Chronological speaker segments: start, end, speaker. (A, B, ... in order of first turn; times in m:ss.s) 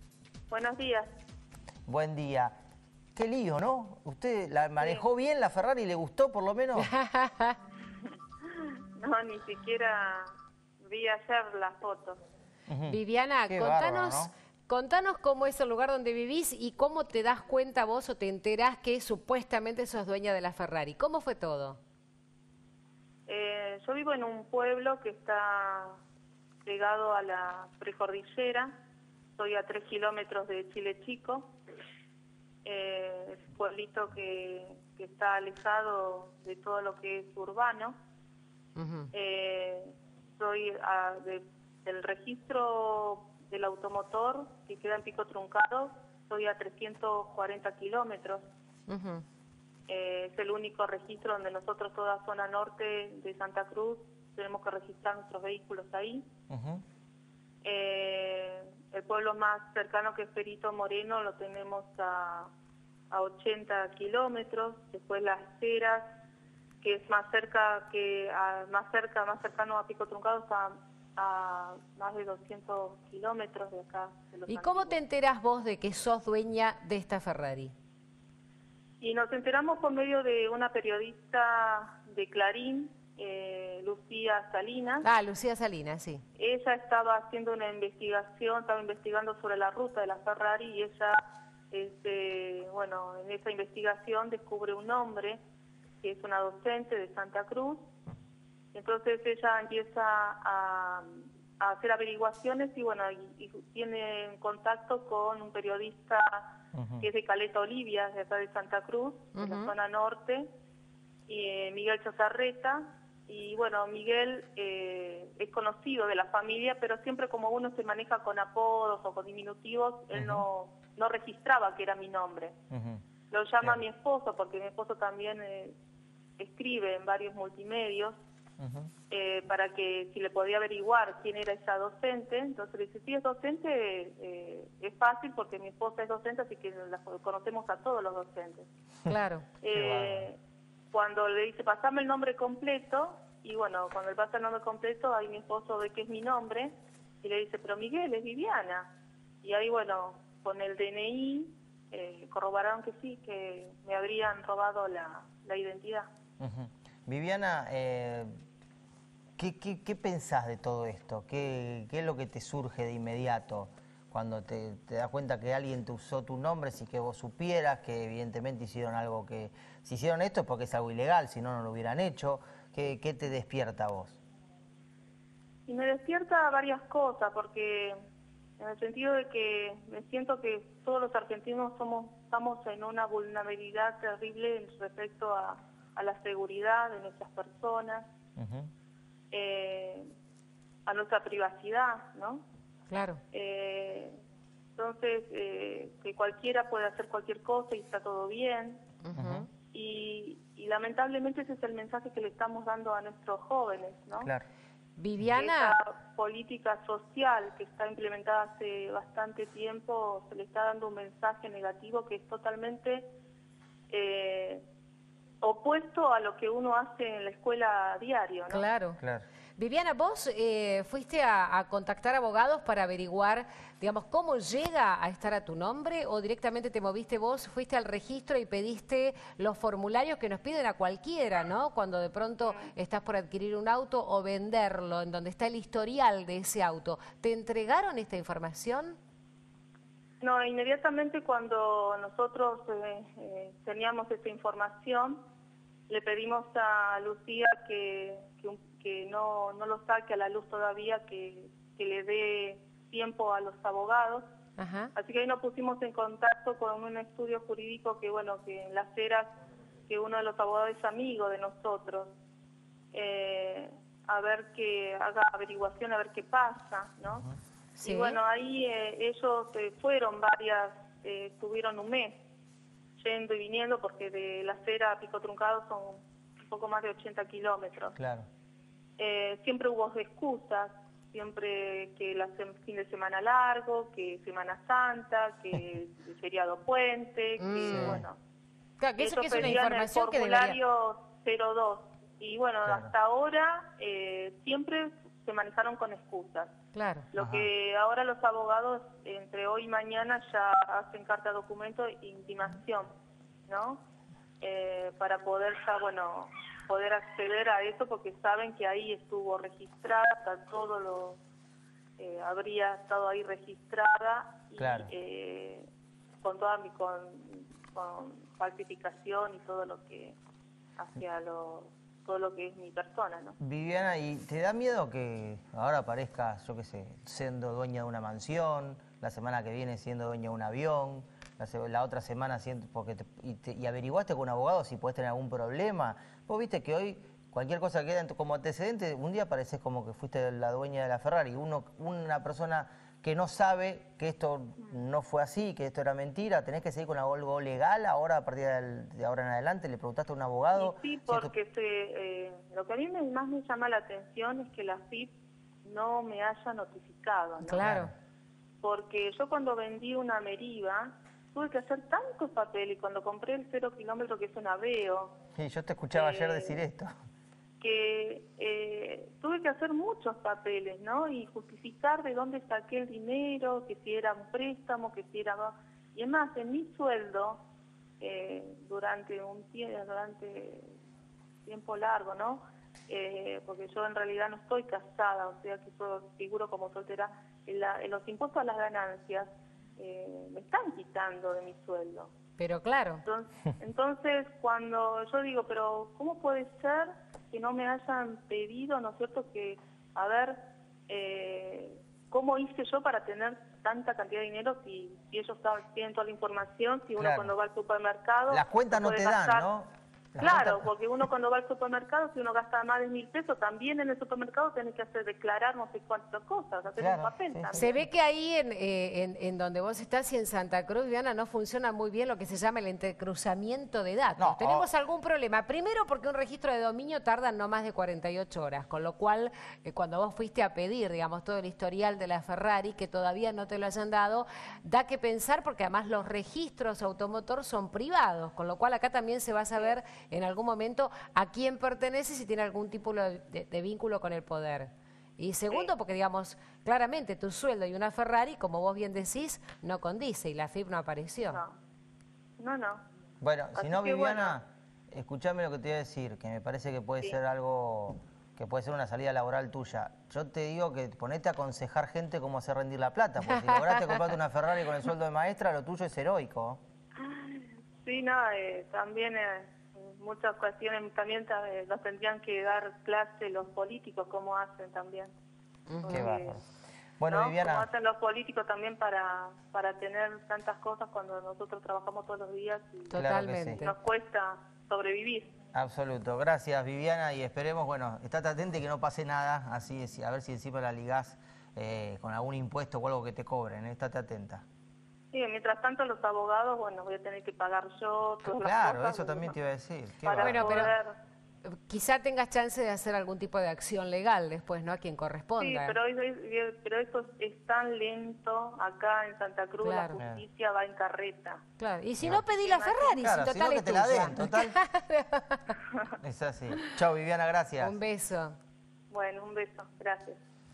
0:00.5-0:01.1 A
0:01.9-0:02.5 B
0:03.1-0:06.9 B
0:06.8-0:07.6 C
0:08.4-0:12.2 A
0:12.7-0:14.3 B
0:12.9-0:21.8 C
0:23.3-0:26.0 A
0:26.6-0:28.7 A
0:29.4-0:31.5 A
0:32.6-0:38.0 A
0:38.8-0:39.1 C
0:39.1-0:48.4 A
0:48.9-0:49.2 C
0:49.9-0:56.3 A
0:56.5-0:56.8 B
0:57.6-1:02.5 A
1:03.1-1:06.1 A
1:06.8-1:15.0 A
1:14.5-1:17.7 C
1:19.0-1:25.0 A
1:25.0-1:26.2 C
1:26.4-1:31.2 A
1:31.7-1:35.4 A
1:36.0-1:37.9 A
1:38.7-1:50.5 A
1:46.7-1:47.0 B
1:49.3-1:49.7 C
1:51.3-2:02.6 A
2:00.1-2:00.5 B
2:02.7-2:03.0 B
2:03.3-2:05.8 A
2:06.4-2:08.2 A
2:08.6-2:08.9 B
2:09.1-2:18.7 A
2:19.0-2:19.5 C
2:19.6-2:20.4 A
2:19.7-2:20.3 B
2:20.9-2:28.9 A
2:29.4-2:36.1 A
2:36.4-2:38.4 B
2:39.4-2:54.2 B
2:55.7-2:58.0 A
2:58.6-3:08.1 A
3:08.4-3:08.7 B
3:09.3-3:10.0 A
3:10.8-3:12.4 A
3:12.9-3:13.2 C
3:13.3-3:14.2 A
3:14.8-3:18.9 A
3:19.0-3:19.5 C
3:19.2-3:19.4 B
3:19.7-3:24.3 A
3:24.2-3:24.4 B
3:25.0-3:25.8 C
3:25.3-3:33.1 A
3:33.9-3:34.6 A
3:35.4-3:38.6 A
3:38.5-3:39.0 C
3:39.0-3:39.2 B
3:39.6-3:59.0 C
4:00.2-4:05.2 A
4:05.9-4:14.2 A
4:14.6-4:14.9 C
4:14.9-4:19.3 A
4:19.9-4:22.1 A
4:22.9-4:27.3 A
4:27.8-4:28.2 C
4:27.8-4:32.2 A
4:33.0-4:37.9 A
4:38.0-4:38.3 B
4:39.0-4:48.2 A
4:47.4-4:48.0 C
4:47.7-4:48.0 B
4:48.8-4:50.6 C
4:49.0-4:56.6 A
4:52.6-4:52.9 B
4:56.7-4:57.1 C
4:57.1-5:02.9 A
4:57.2-4:57.5 B
5:03.5-5:03.8 A
5:04.4-5:11.2 A
5:12.0-5:15.7 A
5:14.6-5:14.9 B
5:16.2-5:20.2 A
5:20.8-5:23.4 A
5:23.4-5:51.3 B
5:50.5-5:57.7 A
5:57.4-5:57.9 C
5:57.6-5:57.9 B
5:58.6-6:05.1 A
6:05.4-6:06.9 B
6:05.9-6:06.6 A
6:07.6-6:17.4 A
6:18.0-6:20.7 A
6:21.4-6:32.1 A
6:32.4-6:33.0 C
6:33.0-6:49.5 A
6:47.0-6:47.3 B
6:48.3-6:50.7 B
6:50.2-6:57.8 A
6:56.8-6:57.6 B
6:57.5-7:31.4 C
7:04.2-7:04.7 B
7:32.4-7:32.8 A
7:33.2-7:46.6 B
7:33.6-7:34.4 A
7:43.3-7:44.0 C
7:47.0-7:55.1 A
7:55.7-7:56.1 C
7:55.8-7:56.4 A
7:55.9-7:56.4 B
7:57.0-7:57.7 B
7:57.1-8:02.9 A
8:02.9-8:03.7 C
8:02.9-8:03.6 B
8:03.6-8:05.3 A
8:05.5-8:14.4 B
8:15.1-8:19.4 A
8:18.3-8:20.7 B
8:20.0-8:20.9 A
8:20.2-8:20.7 C
8:21.5-8:25.8 C
8:25.4-8:31.4 A
8:29.6-8:30.0 C
8:31.6-8:35.6 C
8:32.1-8:33.0 A
8:33.0-8:34.6 B
8:36.0-8:37.8 B
8:37.6-8:38.4 C
8:38.9-8:40.2 A